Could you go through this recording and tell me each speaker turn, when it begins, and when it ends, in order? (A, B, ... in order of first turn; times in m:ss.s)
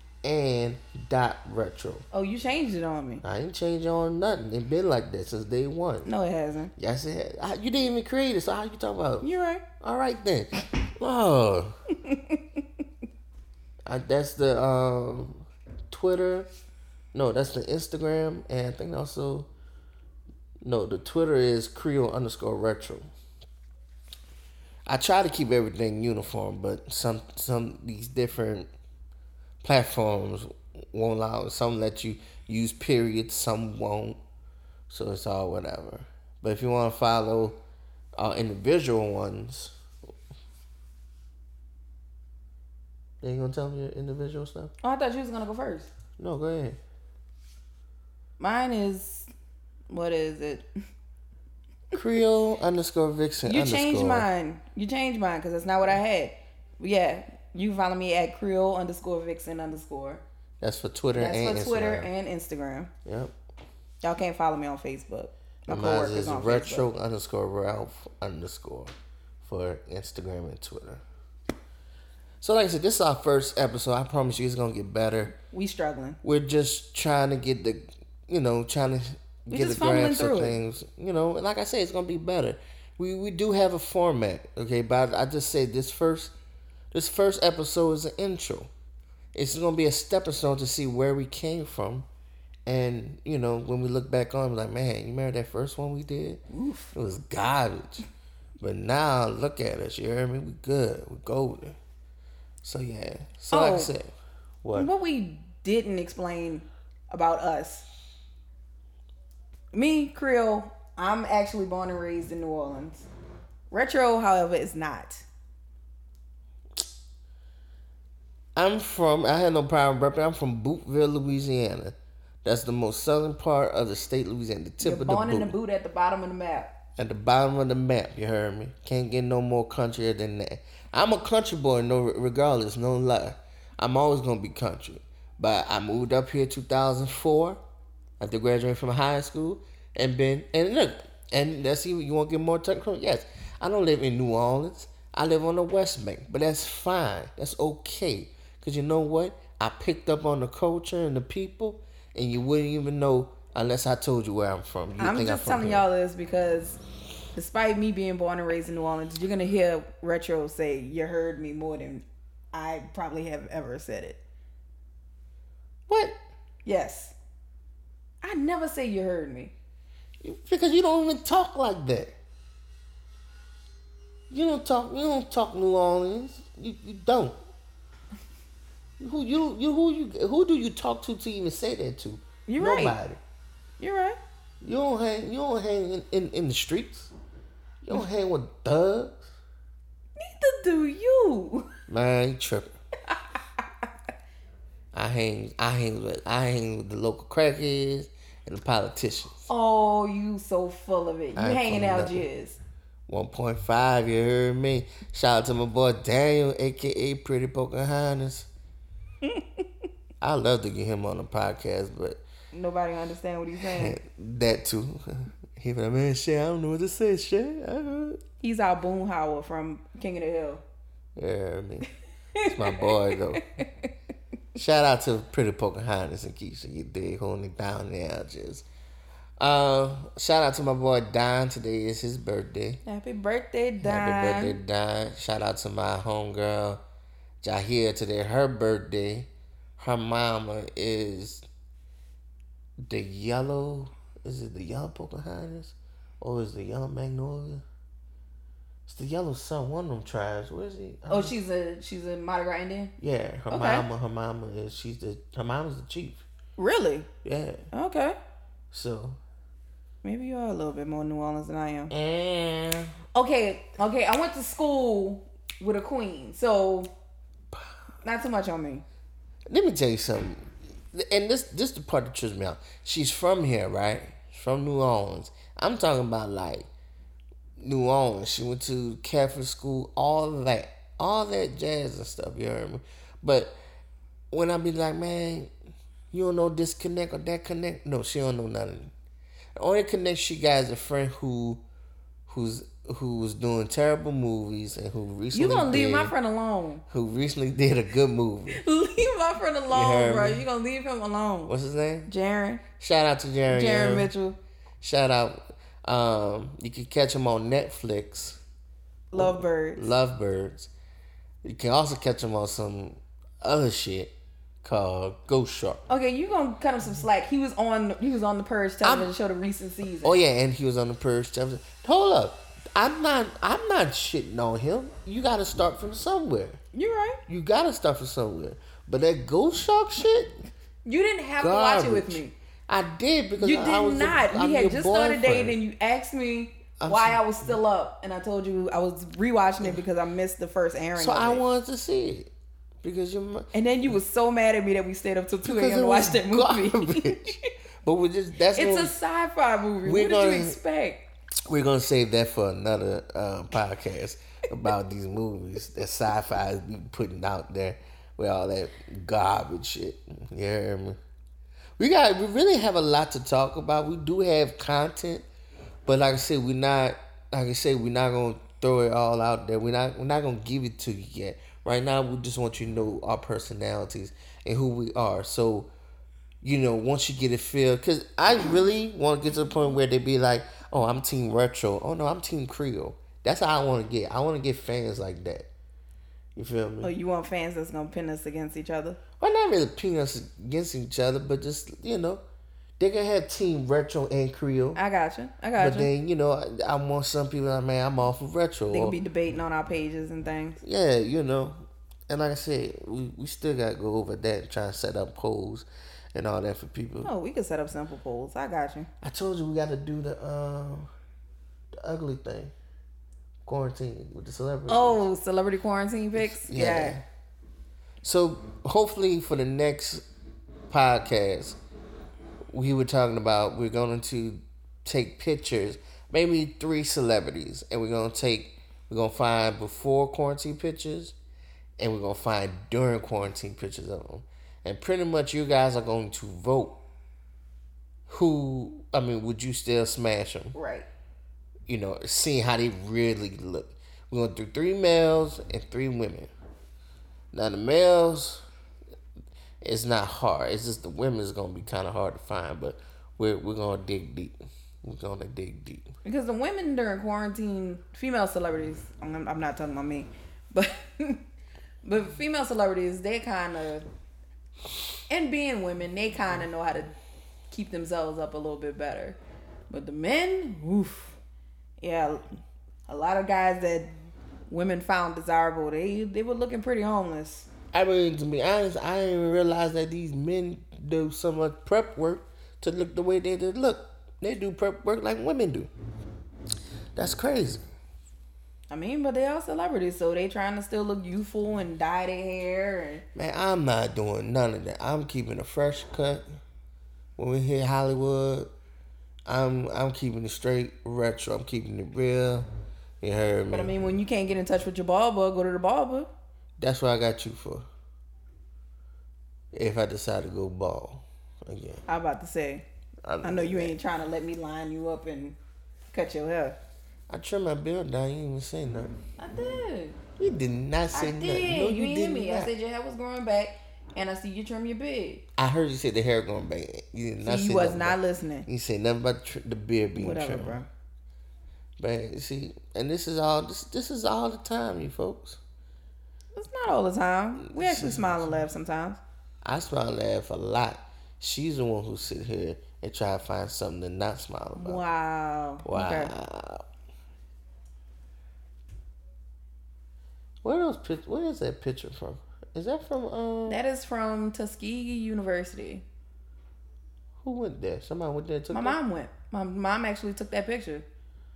0:00.2-0:02.0 A
0:02.1-0:03.2 B
0:03.2-0:06.1 A
0:06.1-0:06.7 B
0:06.8-0:09.3 A
0:09.2-0:09.6 B
0:09.8-0:11.8 A
0:12.0-0:12.4 B
0:13.9-0:16.5 A
0:17.1-0:19.5 A
0:20.6-0:23.1 A
0:24.9-0:28.7 A
0:29.6-0:34.2 A
0:34.9-0:37.6 A
0:38.2-0:39.8 A
0:43.2-0:44.7 A
0:44.8-0:45.9 B
0:46.2-0:46.8 A
0:48.4-0:49.3 B
0:49.9-0:50.7 B
0:51.9-0:54.3 A
0:53.5-1:00.2 B
1:00.6-1:02.1 A
1:01.2-1:02.9 B
1:03.1-1:03.3 A
1:04.0-1:06.9 B
1:05.7-1:11.0 A
1:12.4-1:15.4 A
1:15.4-1:16.2 B
1:16.2-1:26.3 A
1:19.5-1:20.6 B
1:26.9-1:28.7 A
1:29.4-1:32.1 A
1:32.7-1:36.4 A
1:36.5-1:36.9 B
1:36.9-1:38.1 A
1:38.6-1:41.8 A
1:42.6-1:44.9 A
1:43.5-1:43.9 B
1:44.7-1:47.9 B
1:49.7-1:53.1 B
1:53.7-1:55.3 B
1:58.6-2:05.5 A
2:04.8-2:06.7 B
2:07.0-2:17.6 A
2:18.2-2:35.9 A
2:35.0-2:36.8 B
2:37.3-2:44.2 B
2:45.9-2:46.2 A
2:46.6-2:47.2 B
2:48.2-2:49.5 B
2:50.2-2:52.1 A
2:54.3-2:57.4 A
2:59.0-3:03.2 A
3:02.5-3:03.0 B
3:03.8-3:04.2 B
3:04.6-3:07.1 A
3:07.8-3:09.3 A
3:10.2-3:11.7 B
3:11.9-3:12.8 A
3:14.9-3:19.5 A
3:19.5-3:22.6 B
3:21.4-3:22.3 A
3:23.1-3:28.5 A
3:30.2-3:32.2 A
3:32.5-3:34.0 B
3:33.6-3:38.2 A
3:38.4-3:40.6 B
3:41.2-3:41.9 A
3:42.4-3:43.9 B
3:42.4-3:43.5 A
3:44.6-3:48.7 A
3:49.4-3:52.8 A
3:52.8-3:54.6 B
3:53.8-3:56.8 A
3:57.4-4:01.5 A
4:02.8-4:07.6 A
4:08.9-4:11.3 A
4:11.1-4:12.9 B
4:13.0-4:16.2 A
4:13.5-4:13.9 B
4:16.6-4:17.1 B
4:17.2-4:17.7 A
4:17.7-4:18.2 B
4:18.7-4:19.2 A
4:20.0-4:21.9 B
4:21.9-4:23.0 A
4:23.1-4:26.9 B
4:28.0-4:28.8 B
4:29.5-4:36.7 A
4:37.6-4:43.6 A
4:44.3-4:45.5 A
4:46.1-4:48.9 A
4:49.6-4:51.6 A
4:52.3-4:56.1 A
4:55.3-4:56.8 B
4:56.9-4:58.6 A
4:58.5-5:01.5 B
4:59.7-5:00.4 A
5:01.5-5:02.1 A
5:02.1-5:02.6 B
5:02.8-5:04.1 A
5:03.5-5:04.4 B
5:04.8-5:08.4 A
5:09.1-5:09.8 B
5:09.2-5:10.7 A
5:11.4-5:15.8 A
5:15.9-5:20.2 B
5:18.8-5:19.1 A
5:20.0-5:26.6 A
5:26.7-5:27.2 B
5:27.3-5:30.4 A
5:30.9-5:32.3 B
5:31.4-5:35.6 A
5:33.4-5:41.4 B
5:36.8-5:37.2 A
5:41.0-5:42.3 A
5:42.8-5:43.5 A
5:43.5-5:47.5 B
5:45.4-5:49.0 A
5:48.6-5:51.1 B
5:49.8-5:50.6 A
5:51.5-6:01.0 A
6:01.8-6:05.3 A
6:05.9-6:15.7 A
6:16.4-6:25.5 A
6:26.4-6:26.9 A
6:26.8-6:29.0 B
6:29.2-6:32.2 A
6:32.8-6:34.8 A
6:34.8-6:35.9 B
6:35.6-6:39.0 A
6:38.7-6:40.6 B
6:40.6-6:47.1 A
6:47.0-6:48.9 B
6:49.0-6:50.9 A
6:51.8-6:52.5 A
6:53.5-6:55.0 A
6:54.7-6:57.0 B
6:56.2-6:57.0 A
6:58.0-7:00.1 A
7:00.7-7:01.6 A
7:02.5-7:11.2 A
7:11.8-7:16.8 A
7:18.1-7:20.5 A
7:20.5-7:20.9 B
7:21.7-7:26.3 A
7:27.3-7:28.4 A
7:29.6-7:35.9 A
7:36.0-7:41.2 B
7:41.8-7:43.9 B
7:45.1-7:46.9 B
7:47.5-7:49.2 B
7:49.7-7:51.2 B
7:51.8-7:52.3 B
7:52.9-7:53.9 B
7:54.5-7:57.5 B
7:57.7-8:05.7 A
8:07.0-8:07.6 A
8:08.7-8:13.0 B
8:13.2-8:16.3 A
8:17.2-8:18.5 A
8:19.3-8:22.5 A
8:23.0-8:23.9 A
8:23.5-8:26.1 B
8:26.6-8:27.7 A
8:29.5-8:31.8 A
8:31.9-8:32.6 B
8:33.0-8:33.8 A
8:33.2-8:35.4 B
8:35.9-8:36.6 B
8:37.1-8:38.9 A
8:39.2-8:40.0 B
8:40.2-8:42.5 A
8:40.9-8:45.2 B
8:45.4-8:50.6 A
8:47.2-8:48.5 B
8:50.0-8:50.7 B
8:51.8-8:55.4 A
8:56.4-8:59.0 B
8:57.4-8:58.4 A
8:59.4-9:04.8 A
9:04.6-9:06.1 B
9:05.6-9:06.6 A
9:10.4-9:13.6 A
9:13.5-9:15.8 B
9:17.2-9:18.8 A
9:18.5-9:20.8 B